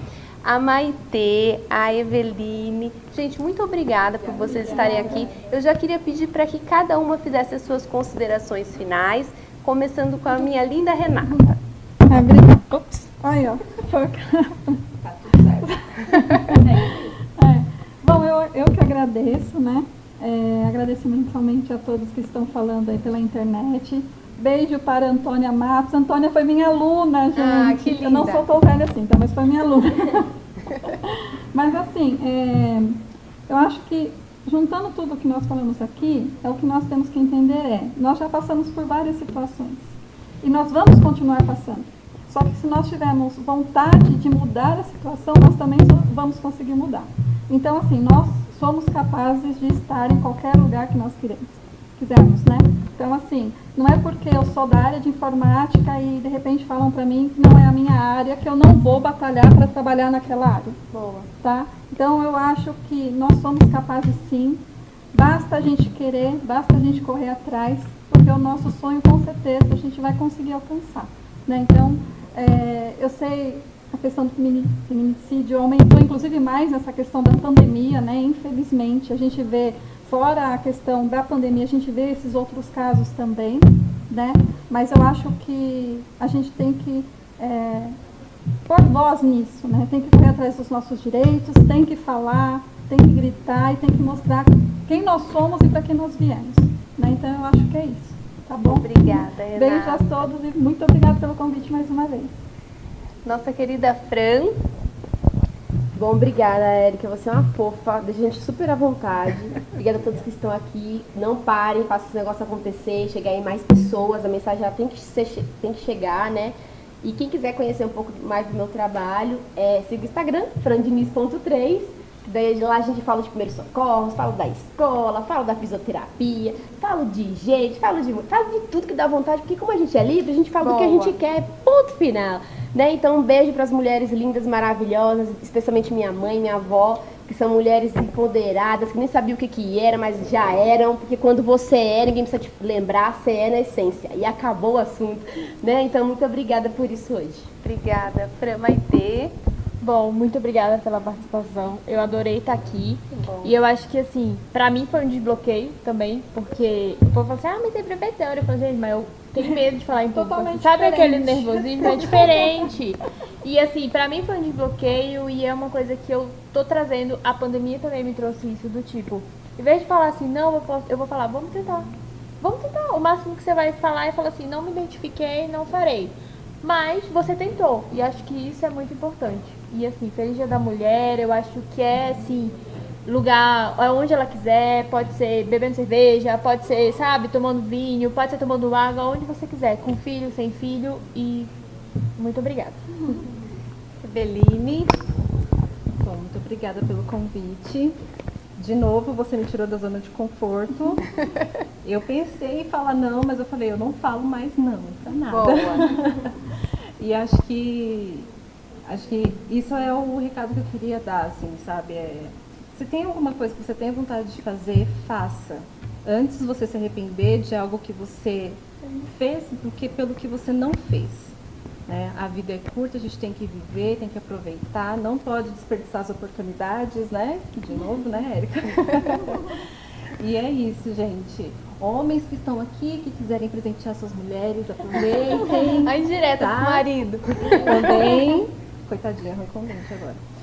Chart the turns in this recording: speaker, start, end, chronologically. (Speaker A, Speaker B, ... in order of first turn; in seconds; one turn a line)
Speaker A: 0.4-11.6
Speaker B: 4.8-5.0
Speaker C: 4.9-5.3
Speaker B: 12.1-14.9
Speaker D: 15.0-16.2
Speaker B: 15.4-30.3
Speaker C: 16.6-17.0
Speaker A: 27.3-28.5
Speaker B: 31.0-60.8
Speaker A: 60.9-61.3
Speaker B: 61.4-64.6
Speaker B: 65.1-88.0
Speaker B: 88.7-102.4
Speaker A: 98.6-100.3
Speaker A: 103.2-104.6
Speaker E: 106.0-147.5
Speaker A: 130.6-131.2
Speaker A: 147.6-149.3
Speaker C: 149.8-171.9
Speaker B: 160.1-162.6
Speaker C: 172.4-191.5
Speaker C: 192.2-193.2
Speaker A: 194.0-195.0
Speaker D: 196.0-198.0
Speaker D: 198.6-201.1
Speaker D: 201.8-208.3
Speaker A: 205.3-205.9
Speaker D: 208.8-221.4
Speaker D: 221.9-240.2
Speaker A: 235.6-238.3